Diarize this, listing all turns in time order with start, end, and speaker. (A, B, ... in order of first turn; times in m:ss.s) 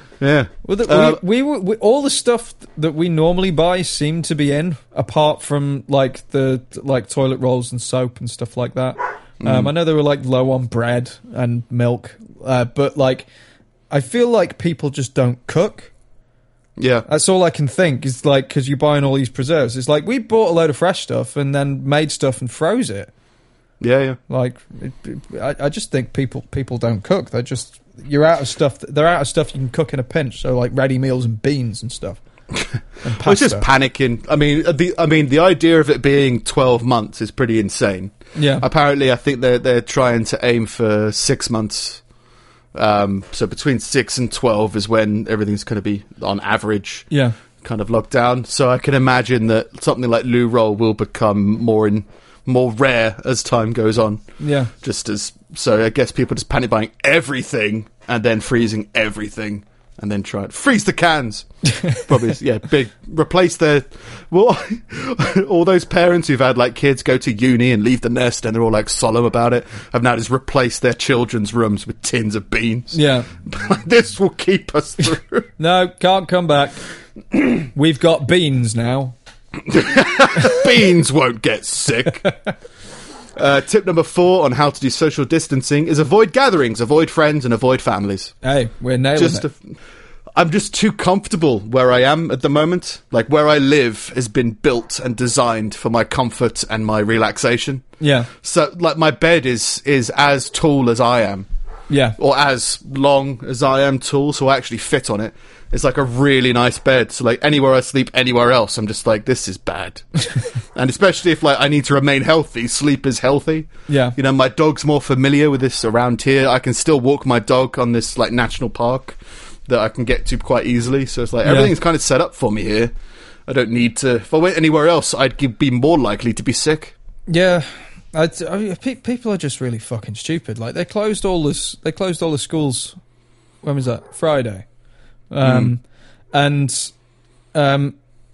0:00.2-0:01.2 A
0:00.6-0:13.2 B
0:09.4-0:09.7 A
0:13.9-0:15.9 B
0:16.8-0:17.0 A
0:17.1-0:23.1 B
0:23.8-0:24.2 A
0:24.3-0:32.2 B
0:32.5-0:42.0 A
0:33.0-0:33.7 B
0:38.3-0:38.6 B
0:42.7-0:47.1 A
0:47.1-0:47.4 B
0:47.6-0:54.2 A
0:54.4-0:54.7 B
0:54.8-1:15.5 A
1:01.7-1:02.0 B
1:12.9-1:13.3 B
1:15.6-1:16.8 B
1:17.3-1:19.1 B
1:19.6-1:22.2 A
1:23.4-1:28.3 A
1:28.4-1:29.5 B
1:29.1-1:29.6 A
1:30.4-1:37.8 A
1:38.0-1:38.3 B
1:38.4-1:41.4 A
1:41.9-1:42.2 B
1:42.2-1:50.0 A
1:50.7-2:02.9 A
1:53.9-1:54.2 B
2:01.4-2:01.7 B
2:03.5-2:06.9 A
2:07.3-2:13.0 B
2:13.6-2:14.6 B
2:15.3-2:16.9 B
2:15.4-2:15.7 A
2:17.5-2:18.0 B